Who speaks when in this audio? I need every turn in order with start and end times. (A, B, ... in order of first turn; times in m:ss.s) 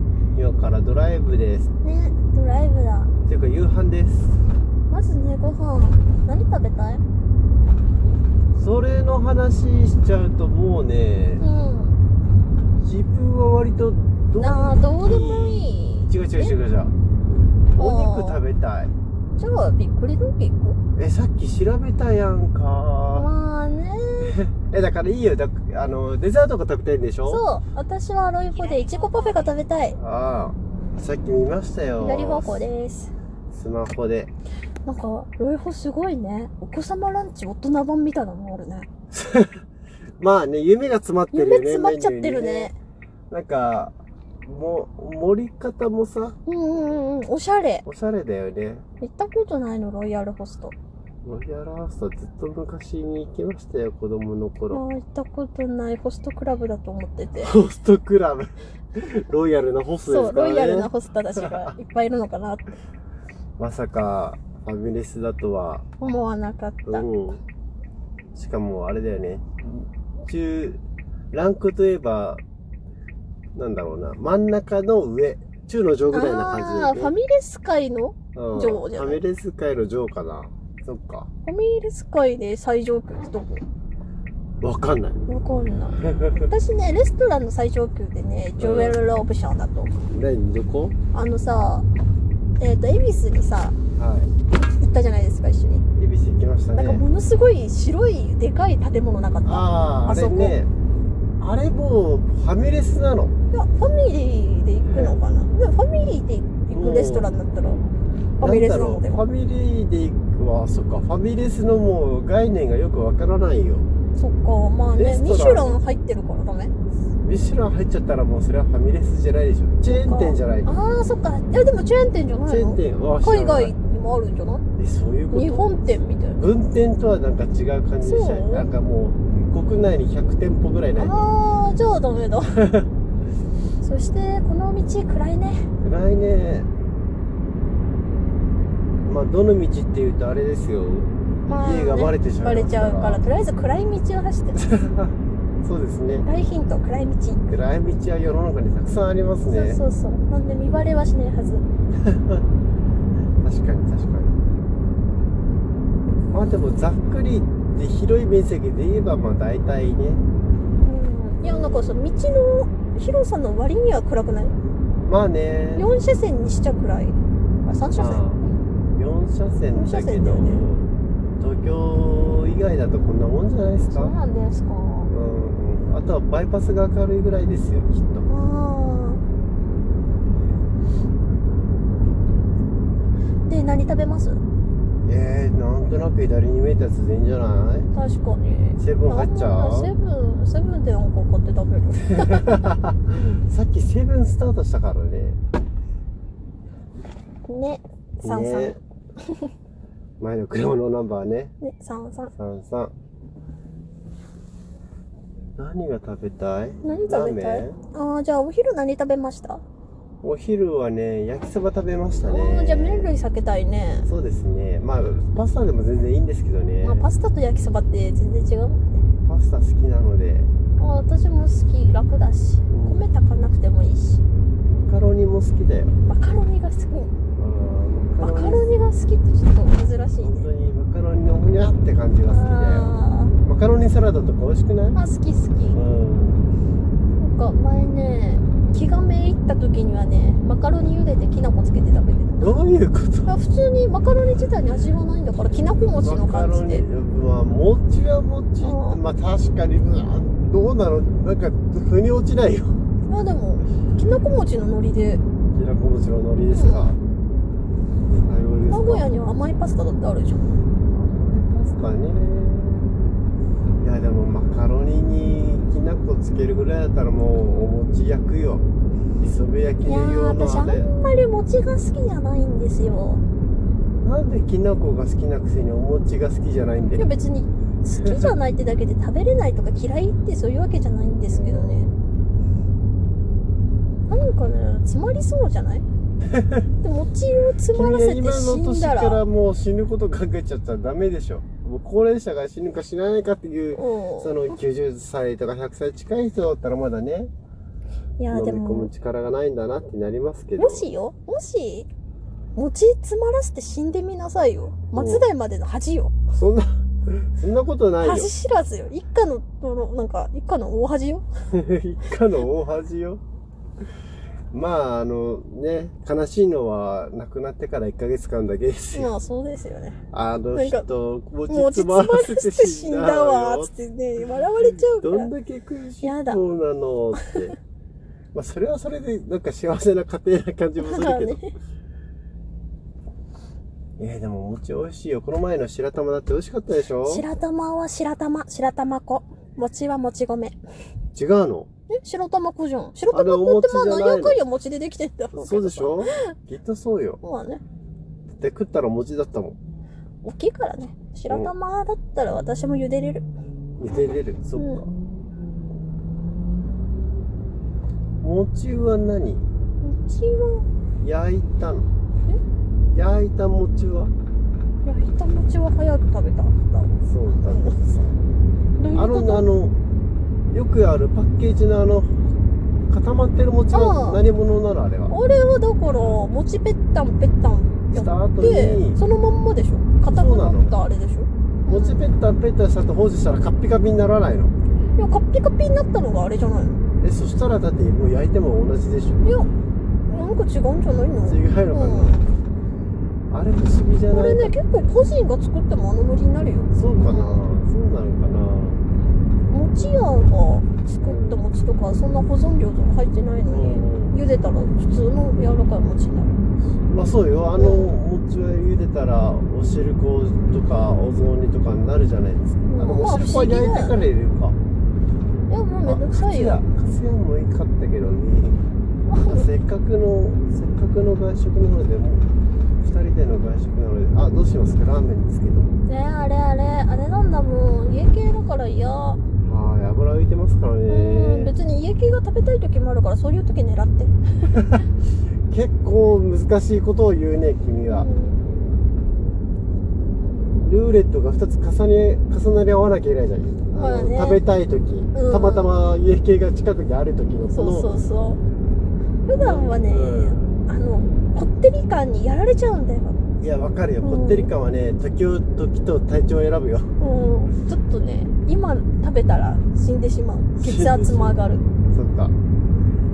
0:00.3-0:01.7 A
0:01.8-0:03.1 B
0:03.2-0:04.3 A
0:04.9-0:07.0 B
0:08.5-0:11.4 A
0:11.4-0:12.0 B
0:12.8-0:16.9 A
0:14.4-0:16.5 B
0:17.7-0:18.4 B
0:17.8-0:18.9 A
0:19.4-0:20.8 B
0:21.0-0:23.3 A
0:23.2-0:24.4 B
0:24.2-0:27.4 A
0:27.2-0:30.0 B
0:30.0-0:32.7 A
0:32.0-0:33.1 B
0:33.5-0:34.3 A
0:34.8-0:38.9 B
0:39.1-0:39.6 A
0:40.2-0:42.7 A
0:41.3-0:42.7 B
0:43.3-0:46.4 A
0:46.4-0:47.8 B
0:47.8-0:48.8 A
0:49.0-0:50.7 B
0:51.2-0:54.8 A
0:54.7-0:57.5 B
0:57.4-1:01.7 A
1:00.1-1:02.6 B
1:03.6-1:05.9 A
1:06.0-1:07.0 B
1:06.9-1:07.4 A
1:08.3-1:10.8 A
1:11.3-1:12.4 A
1:13.5-1:17.1 A
1:16.1-1:19.2 B
1:18.3-1:21.3 A
1:21.4-1:23.6 B
1:24.6-1:25.4 A
1:25.3-1:30.0 B
1:26.0-1:26.5 A
1:28.6-1:29.0 A
1:30.1-1:30.9 A
1:31.1-1:31.8 B
1:32.6-1:33.8 B
1:34.0-1:34.3 A
1:34.5-1:35.8 B
1:35.9-1:37.0 A
1:36.7-1:40.6 B
1:39.4-1:40.7 A
1:41.4-1:43.3 A
1:43.5-1:47.8 B
1:44.9-1:45.2 A
1:46.7-1:47.3 A
1:48.4-1:49.2 B
1:48.4-1:53.9 A
1:54.1-1:56.7 B
1:54.9-1:55.8 A
1:57.1-2:00.7 A
1:59.9-2:04.6 B
2:02.5-2:03.7 A
2:04.8-2:11.3 A
2:05.3-2:06.4 B
2:08.0-2:08.7 B
2:11.0-2:12.6 B
2:12.6-2:12.9 A
2:13.8-2:15.7 B
2:15.8-2:16.7 A
2:19.0-2:23.2 A
2:21.4-2:24.7 B
2:24.6-2:26.3 A
2:26.2-2:27.4 B
2:27.5-2:29.8 A
2:29.5-2:31.7 B
2:32.0-2:32.4 A
2:33.4-2:34.4 A
2:36.3-2:40.2 A
2:40.8-2:44.6 B
2:41.4-2:42.1 A
2:45.0-2:45.9 A
2:45.7-2:48.2 B
2:47.9-2:48.4 A
2:49.0-2:54.2 A
2:49.7-2:50.6 B
2:53.9-2:55.1 B
2:55.1-2:58.3 A
2:58.3-2:59.2 B
3:03.5-3:04.4 B
3:05.0-3:07.9 A
3:07.9-3:12.6 B
3:08.8-3:09.9 A
3:12.1-3:15.4 A
3:17.4-3:19.5 B
3:18.2-3:18.8 A
3:20.2-3:21.5 A
3:21.6-3:22.3 B
3:22.3-3:22.9 A
3:25.6-3:27.8 A
3:26.8-3:29.6 B
3:30.2-3:33.1 A
3:32.3-3:34.1 B
3:34.0-3:37.1 A
3:36.8-3:39.0 B
3:39.2-3:40.5 A
3:40.8-3:44.2 B
3:42.7-3:43.0 A
3:44.7-3:46.0 A
3:46.0-3:47.1 B
3:47.4-3:48.7 A
3:48.2-3:50.5 B
3:50.2-3:55.0 A
3:52.2-3:53.3 B
3:54.9-3:55.8 B
3:55.7-3:56.5 A
3:57.2-4:02.5 B
4:02.4-4:03.3 A
4:03.2-4:06.8 B
4:05.8-4:12.8 A
4:08.6-4:09.0 B
4:13.1-4:15.2 B
4:15.5-4:17.0 A
4:16.5-4:16.9 B
4:18.2-4:19.1 A
4:18.7-4:20.5 B
4:20.9-4:22.9 A
4:23.8-4:28.6 A
4:29.2-4:30.9 A
4:29.8-4:33.2 B
4:34.0-4:37.1 A
4:36.9-4:41.9 B
4:38.0-4:38.3 A
4:41.3-4:41.9 A
4:44.1-4:45.8 B
4:46.3-4:46.6 A
4:46.8-4:49.2 B
4:47.7-4:57.3 A
4:53.7-4:54.4 B
4:58.2-4:58.9 B
4:58.3-5:00.8 A
5:00.6-5:01.9 B
5:02.5-5:06.1 B
5:04.9-5:05.2 A
5:06.3-5:08.3 A
5:08.0-5:11.2 B
5:11.5-5:13.2 A
5:14.5-5:19.1 A
5:18.9-5:20.0 B
5:20.1-5:23.7 A
5:20.5-5:20.9 B
5:21.5-5:25.3 B
5:24.6-5:27.6 A
5:26.0-5:26.4 B
5:28.3-5:31.4 A
5:30.8-5:31.5 B
5:34.0-5:37.2 A
5:37.0-5:40.6 B
5:41.1-5:41.7 A
5:41.9-5:46.1 B
5:43.1-5:44.4 A
5:45.3-5:47.2 A
5:47.2-5:47.6 B
5:48.4-5:49.6 A
5:50.2-5:53.2 B
5:53.8-5:54.9 A
5:54.6-5:54.8 B
5:58.2-5:59.5 A
5:59.8-6:00.6 B
6:01.0-6:01.9 A
6:02.9-6:04.1 A
6:04.8-6:07.8 B
6:07.0-6:08.2 A
6:08.8-6:09.5 B
6:08.9-6:09.8 A
6:10.5-6:12.2 A
6:12.9-6:15.1 A
6:13.7-6:14.2 B
6:15.1-6:22.0 B
6:17.9-6:19.0 A
6:20.0-6:20.7 A
6:21.7-6:24.5 A
6:25.0-6:26.8 B
6:27.0-6:29.3 A
6:29.2-6:29.5 B
6:30.1-6:32.2 B
6:31.2-6:32.2 A
6:33.3-6:34.8 A
6:34.1-6:37.4 B
6:36.7-6:38.8 A
6:39.5-6:46.4 B
6:41.0-6:41.4 A
6:43.5-6:44.2 A
6:46.7-6:54.6 A
6:47.6-6:47.9 B
6:52.7-6:54.1 B
6:55.5-6:56.6 B
6:55.8-6:58.6 A
6:59.0-6:59.5 B
6:59.2-7:02.2 A
7:02.8-7:05.7 A
7:05.8-7:09.2 B
7:09.4-7:11.5 A
7:10.9-7:14.6 B
7:14.5-7:14.8 A
7:15.5-7:18.1 A
7:17.9-7:18.4 B
7:20.6-7:28.0 A
7:23.7-7:24.4 B
7:25.1-7:25.7 B
7:27.5-7:28.4 B
7:29.2-7:33.2 B
7:29.3-7:30.5 A
7:33.4-7:36.9 A
7:34.0-7:34.5 B
7:37.0-7:41.6 B
7:40.6-7:42.4 A